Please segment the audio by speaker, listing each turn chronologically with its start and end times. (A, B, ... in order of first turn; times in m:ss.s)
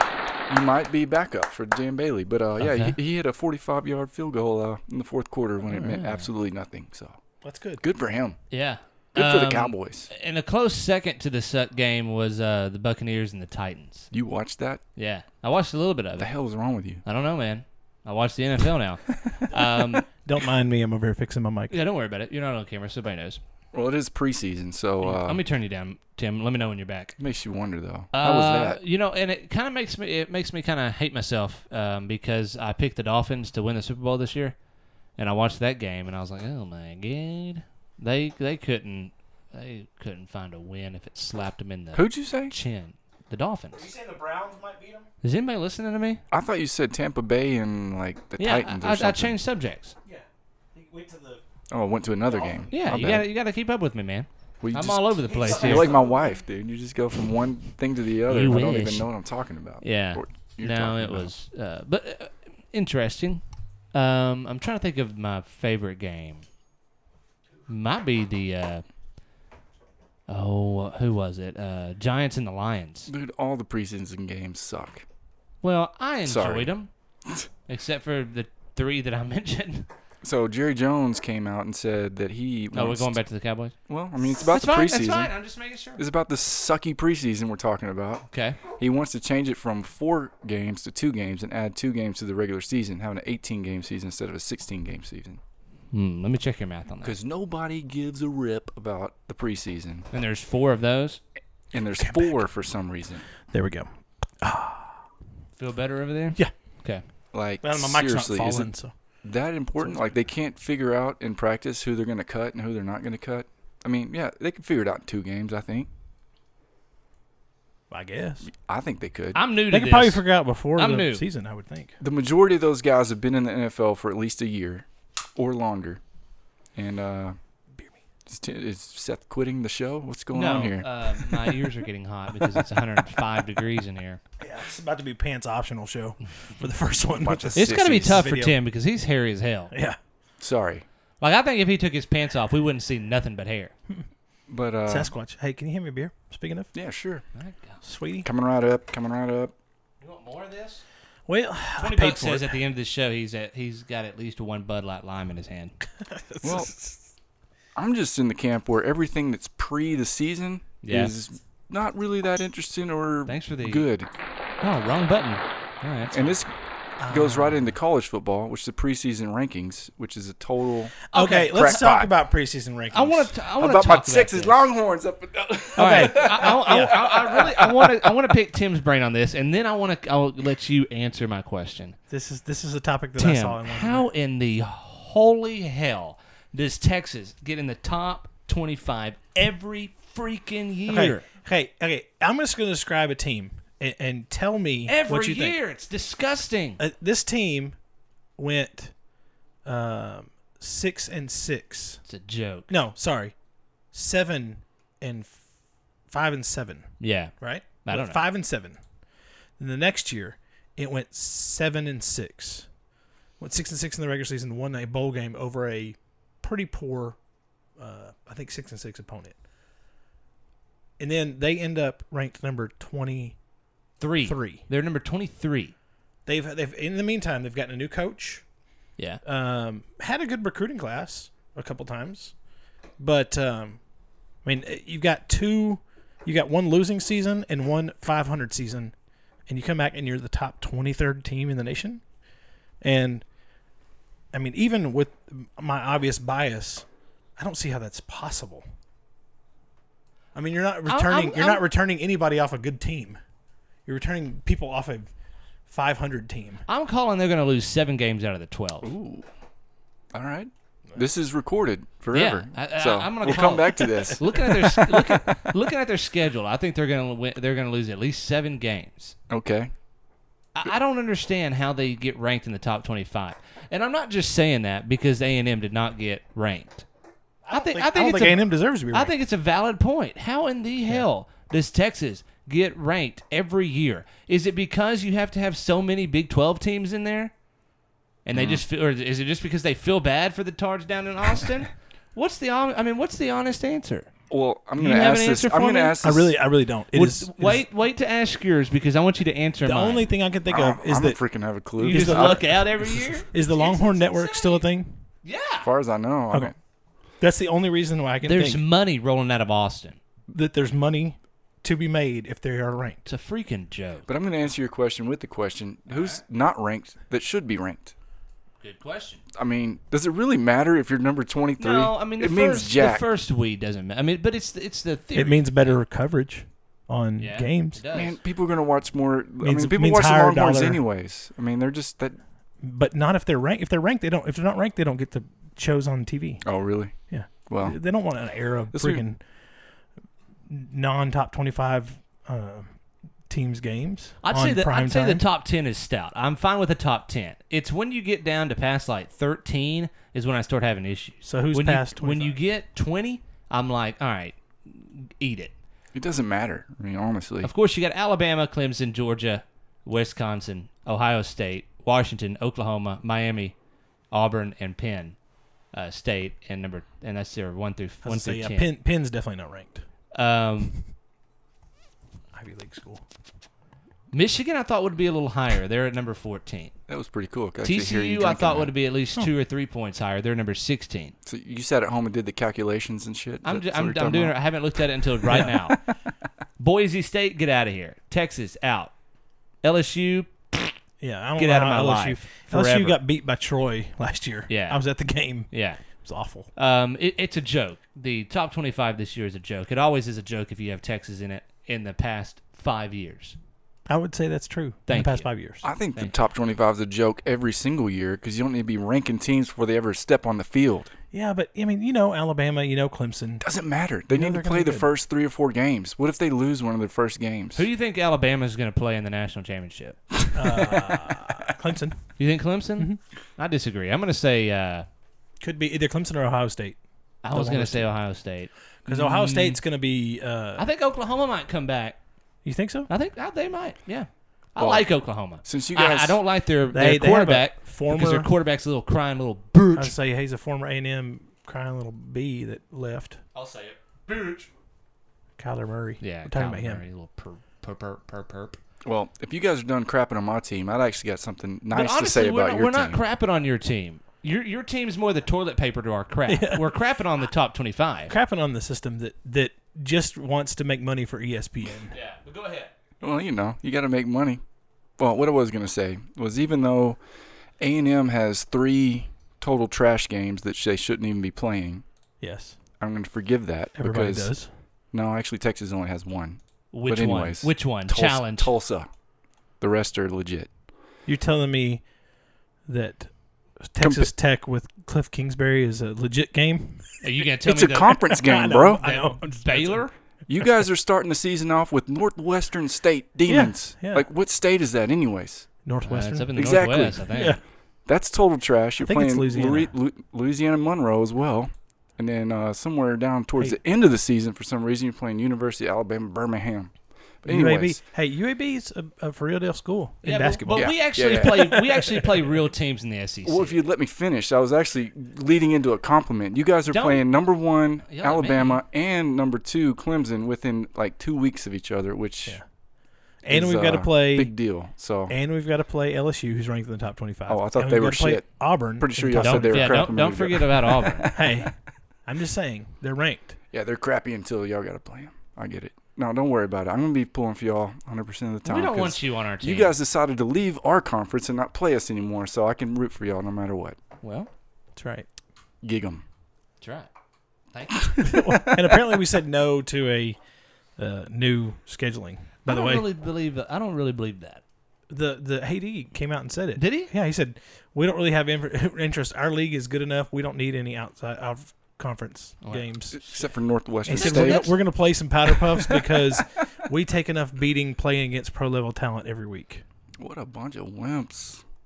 0:00.5-0:07.2 A
0:02.6-0:03.0 B
0:05.7-0:06.3 B
0:07.4-0:07.8 C
0:07.8-0:08.4 A
0:08.5-0:14.1 B
0:09.1-0:10.1 A
0:14.1-0:14.8 A
0:15.0-0:16.3 B
0:16.2-0:17.0 A
0:17.0-0:20.0 B
0:20.2-0:21.8 C
0:21.7-0:23.4 B
0:23.7-0:25.4 A
0:25.0-0:27.2 B
0:27.2-0:28.8 A
0:28.1-0:34.5 B
0:35.2-0:43.9 B
0:41.9-0:42.5 A
0:43.7-0:45.1 C
0:45.2-0:46.2 B
0:46.3-0:49.4 A
0:48.4-0:49.9 B
0:50.0-0:51.4 C
0:51.7-0:53.3 A
0:52.2-0:53.1 C
0:52.7-0:55.9 B
0:54.6-1:01.3 A
0:55.2-0:56.4 C
0:58.2-0:59.1 B
0:59.8-1:03.4 B
1:03.9-1:06.4 B
1:07.7-1:08.8 B
1:10.3-1:13.1 B
1:13.1-1:15.0 A
1:15.6-1:16.9 B
1:16.2-1:16.7 A
1:17.7-1:19.9 B
1:20.2-1:23.2 A
1:22.7-1:26.0 B
1:23.9-1:25.3 A
1:26.0-1:35.4 A
1:28.3-1:28.6 B
1:35.9-1:37.1 B
1:37.0-1:40.1 A
1:40.1-1:41.2 B
1:41.7-1:43.2 A
1:42.0-1:42.4 C
1:43.5-1:43.9 C
1:44.4-1:45.0 C
1:45.6-1:47.0 B
1:47.3-1:48.7 A
1:47.6-1:48.9 C
1:49.2-1:55.9 A
1:49.8-1:50.1 C
1:57.9-1:58.5 C
1:58.4-1:59.4 A
1:59.3-2:01.2 B
1:59.7-2:02.0 C
2:02.0-2:06.0 A
2:06.7-2:07.4 A
2:08.3-2:11.3 A
2:10.3-2:14.2 B
2:14.4-2:18.6 C
2:17.2-2:18.3 A
2:17.5-2:19.7 B
2:19.7-2:20.0 C
2:20.4-2:20.8 A
2:21.2-2:23.7 B
2:24.5-2:25.1 A
2:24.9-2:26.7 C
2:26.7-2:27.2 A
2:27.3-2:27.8 B
2:27.8-2:28.3 C
2:28.2-2:29.5 A
2:30.0-2:30.8 B
2:31.3-2:32.6 C
2:31.8-2:35.8 B
2:36.0-2:37.0 C
2:36.4-2:36.7 A
2:37.7-2:44.1 A
2:40.8-2:41.1 B
2:43.3-2:43.9 B
2:44.6-2:46.3 B
2:46.1-2:46.5 A
2:47.0-2:47.7 C
2:47.1-2:52.1 A
2:51.1-2:51.8 B
2:51.1-2:53.3 C
2:52.9-2:54.6 B
2:53.6-2:58.2 A
2:55.8-2:57.0 C
2:55.8-3:02.0 B
3:02.1-3:04.1 C
3:03.2-3:11.2 B
3:10.9-3:15.6 C
3:14.9-3:16.8 B
3:16.8-3:17.8 C
3:18.4-3:18.9 C
3:19.6-3:22.0 C
3:22.1-3:22.7 B
3:22.7-3:23.3 C
3:23.9-3:25.4 C
3:26.1-3:28.8 C
3:27.0-3:28.2 B
3:29.6-3:32.7 C
3:33.4-3:37.2 C
3:37.8-3:39.4 C
3:41.0-3:43.4 C
3:44.0-3:45.7 B
3:44.2-3:44.6 C
3:46.2-3:48.4 C
3:49.2-3:52.3 C
3:53.0-3:53.8 C
3:54.4-3:58.9 C
3:59.5-4:02.0 C
4:02.8-4:03.2 C
4:04.3-4:06.8 C
4:07.4-4:08.6 C
4:10.3-4:13.2 C
4:10.9-4:11.7 B
4:13.8-4:15.1 C
4:15.7-4:16.6 C
4:16.7-4:18.9 B
4:18.8-4:19.3 A
4:20.1-4:25.4 A
4:22.1-4:29.2 B
4:24.1-4:24.4 C
4:29.3-4:29.7 A
4:30.5-4:36.8 B
4:37.4-4:39.1 C
4:37.5-4:47.3 B
4:48.2-4:54.1 B
4:48.3-4:48.6 A
4:54.3-4:56.4 A
4:54.8-4:56.0 B
4:56.0-4:57.6 C
4:56.9-5:00.1 B
4:59.6-5:01.2 C
5:00.4-5:03.2 A
5:01.8-5:02.5 C
5:01.8-5:04.7 B
5:03.3-5:05.0 C
5:05.2-5:05.7 B
5:05.6-5:06.6 A
5:07.2-5:08.6 C
5:08.2-5:10.0 B
5:10.3-5:13.1 C
5:13.1-5:14.0 B
5:14.1-5:17.9 A
5:15.9-5:16.2 B
5:18.6-5:19.2 B
5:19.3-5:23.1 A
5:21.6-5:25.8 B
5:25.1-5:27.8 C
5:27.2-5:28.2 B
5:27.9-5:32.2 A
5:29.4-5:30.8 C
5:32.6-5:36.4 C
5:36.4-5:36.9 A
5:37.1-5:39.2 C
5:37.5-5:37.8 A
5:38.7-5:39.0 A
5:40.5-5:42.7 C
5:43.3-5:45.2 C
5:44.2-5:55.5 B
5:51.2-5:52.4 C
5:55.9-5:57.5 A
5:57.4-6:03.5 B
6:04.1-6:05.2 B
6:05.7-6:08.7 B
6:08.0-6:09.8 C
6:10.1-6:10.8 B
6:12.3-6:13.0 C
6:14.1-6:16.7 B
6:16.9-6:18.7 A
6:17.6-6:21.1 B
6:21.2-6:24.4 A
6:23.4-6:25.8 B
6:25.3-6:25.5 C
6:25.3-6:25.7 A
6:26.6-6:28.9 B
6:29.6-6:30.8 B
6:31.0-6:36.5 C
6:31.4-6:33.0 B
6:34.5-6:34.8 B
6:35.5-6:35.8 B
6:36.6-6:43.4 B
6:43.9-6:45.7 C
6:44.9-6:45.3 B
6:45.6-6:50.9 A
6:51.1-6:53.4 C
6:53.4-6:57.7 A
6:54.1-6:54.9 C
6:57.6-7:00.0 B
7:00.3-7:02.1 C
7:02.2-7:04.8 B
7:05.4-7:07.9 C
7:07.2-7:09.6 B
7:08.8-7:10.6 C
7:10.6-7:12.0 B
7:12.4-7:12.9 C
7:12.9-7:19.9 B
7:14.6-7:16.2 A
7:16.7-7:18.3 C
7:19.7-7:23.2 C
7:23.3-7:24.5 B
7:25.4-7:26.8 C
7:26.0-7:28.6 B
7:28.8-7:33.0 A
7:31.7-7:38.1 B
7:36.3-7:36.6 C
7:38.1-7:41.9 C
7:41.9-7:42.7 B
7:43.0-7:44.4 A
7:45.0-7:47.0 A
7:47.6-7:51.8 A
7:52.2-7:52.6 C
7:52.8-7:54.3 A
7:53.8-7:54.5 C
7:54.9-7:58.9 A
7:56.7-7:58.5 B
7:59.6-8:00.5 A
8:01.0-8:01.8 C
8:02.7-8:06.9 C
8:03.8-8:04.1 A
8:07.0-8:08.2 B
8:07.4-8:08.8 A
8:08.0-8:10.4 C
8:08.7-8:09.9 B
8:10.3-8:15.5 A
8:13.3-8:14.0 C
8:15.6-8:17.4 C
8:15.8-8:17.4 B
8:16.3-8:17.3 A
8:17.8-8:27.8 A
8:18.8-8:19.7 C
8:27.2-8:31.6 C
8:30.0-8:33.6 B
8:30.5-8:31.6 A
8:33.2-8:42.4 A
8:36.7-8:37.1 B
8:37.9-8:38.6 B
8:43.2-8:49.9 C
8:43.3-8:45.1 A
8:47.3-8:51.4 A
8:49.2-8:51.2 B
8:51.1-8:53.4 C
8:53.5-9:03.8 A
8:58.4-8:59.7 B
9:04.0-9:04.3 B
9:04.8-9:05.1 C
9:05.6-9:06.0 A
9:06.6-9:06.9 B
9:07.5-9:08.0 B
9:08.0-9:08.8 A
9:08.0-9:10.2 C
9:10.8-9:12.8 C
9:12.4-9:14.4 B
9:14.9-9:23.0 C
9:16.6-9:16.9 B
9:22.4-9:23.0 B
9:22.9-9:24.6 A
9:23.8-9:29.6 C
9:23.9-9:24.6 B
9:25.5-9:26.0 A
9:30.0-9:31.4 A